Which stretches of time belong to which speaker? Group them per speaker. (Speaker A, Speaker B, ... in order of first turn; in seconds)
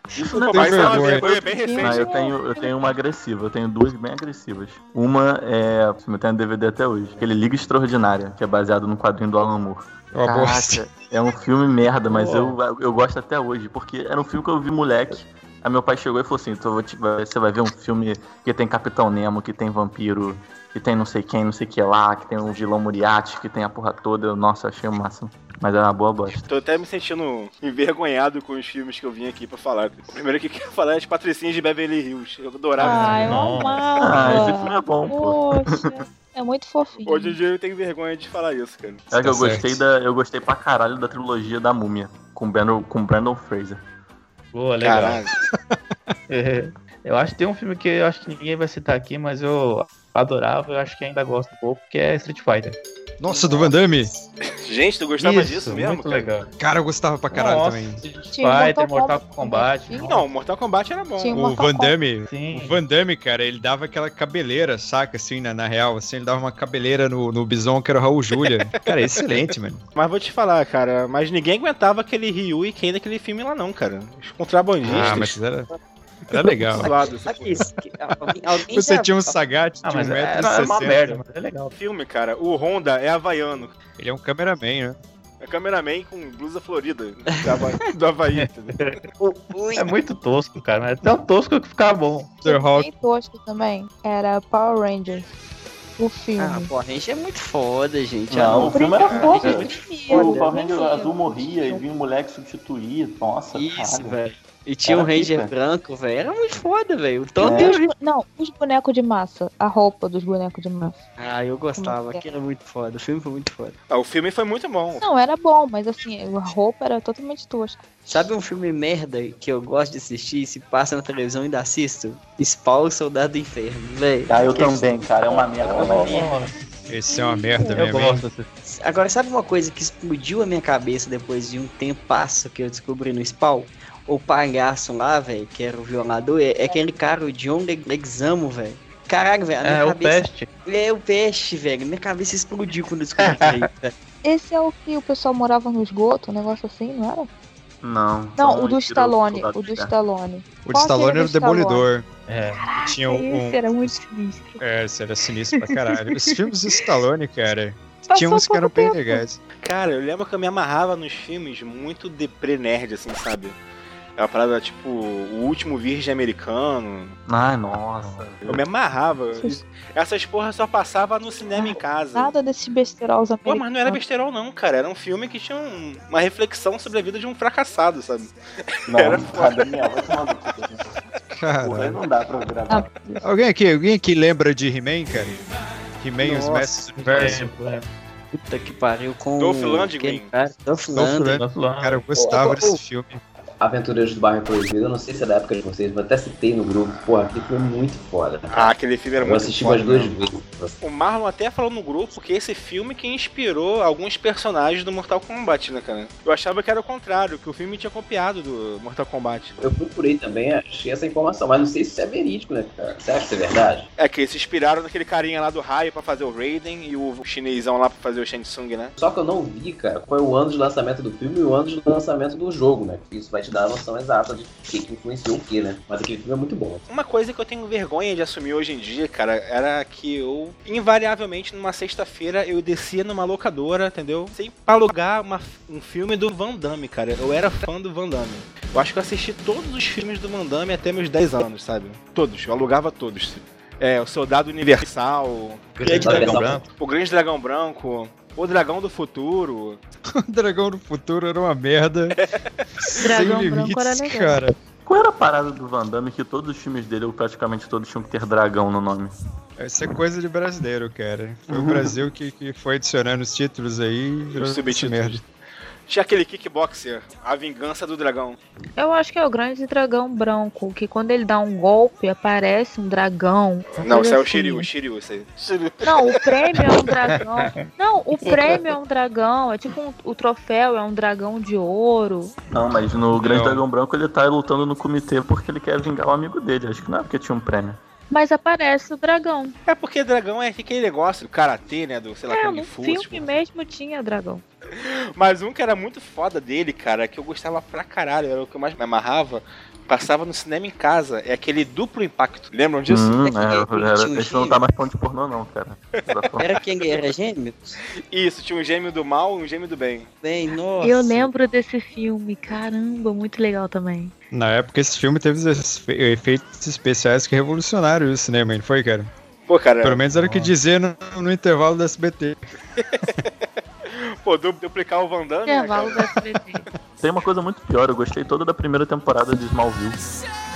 Speaker A: 0.1-1.2, 1.8-26.4, 34.0-35.9, 39.1-43.8, 98.3-104.2, 104.8-105.5, 107.4-107.8, 124.3-126.2, 147.8-149.9, 167.3-168.6, 178.9-180.9, 181.6-182.9, 254.8-259.1, 261.5-262.0, 282.5-287.8, 302.9-306.4, 327.0-330.0
Speaker B: 0.3-2.0, 26.4-33.3, 37.0-39.0, 44.8-45.3, 54.6-56.3, 60.0-61.4, 69.2-75.3, 76.7-77.6, 81.7-83.7, 85.4-88.9, 113.9-115.0, 159.6-163.6, 164.2-167.2, 168.4-172.3, 173.4-178.3, 178.9-179.7, 189.4-190.3, 198.5-200.1, 200.8-209.5, 214.0-218.9, 226.9-249.8, 264.4-265.2, 265.9-268.4, 273.8-276.2, 289.7-293.3, 294.7-303.2, 308.1-310.1, 319.5-320.0, 322.8-323.3, 323.9-326.1
Speaker C: 0.4-1.3, 10.1-10.9, 39.1-39.8, 53.2-54.1, 56.6-58.0, 61.3-69.8, 74.8-75.7, 76.3-76.9, 78.7-81.2, 84.0-85.0, 92.4-92.9, 126.9-128.2, 150.6-152.1, 152.8-154.0, 154.6-159.4, 181.3-182.0, 183.2-185.4, 186.0-187.5, 190.9-193.2, 250.2-252.2, 252.8-254.5, 259.6-265.2, 283.1-283.6, 314.3-319.1, 319.8-322.4
Speaker D: 1.2-2.9, 32.8-37.4, 58.3-60.1, 61.2-61.9, 92.4-95.3, 96.0-96.7, 98.7-101.8, 107.4-111.0, 111.8-112.2, 115.0-117.8, 127.1-127.8, 144.2-147.3, 148.4-151.8, 152.6-154.6, 155.6-156.1, 158.1-159.2, 171.5-174.0, 182.7-183.2, 253.0-254.4, 268.8-274.7, 275.8-282.3, 288.1-289.5, 292.3-294.4, 310.8-314.1, 325.5-326.6
Speaker E: 12.1-12.6, 32.8-34.2, 44.5-45.3, 46.3-52.8, 55.2-56.5, 57.3-60.2, 62.3-62.8, 79.8-81.7, 88.3-89.0, 89.7-92.4, 125.7-126.5, 127.7-128.5, 139.6-140.5, 143.2-143.7, 152.3-152.7, 186.5-187.9, 191.3-192.0, 245.7-246.7, 277.0-277.7, 278.2-278.6, 320.1-320.5
Speaker F: 76.3-79.4, 87.5-87.7, 89.2-89.9, 96.4-100.5, 103.5-107.9, 111.2-113.8, 118.1-126.3, 128.7-143.9, 186.2-187.4, 188.3-191.4, 192.2-192.8, 303.2-304.6, 306.4-307.8, 310.2-311.3
Speaker G: 193.6-200.8, 209.6-213.9, 218.9-226.8, 245.8-246.6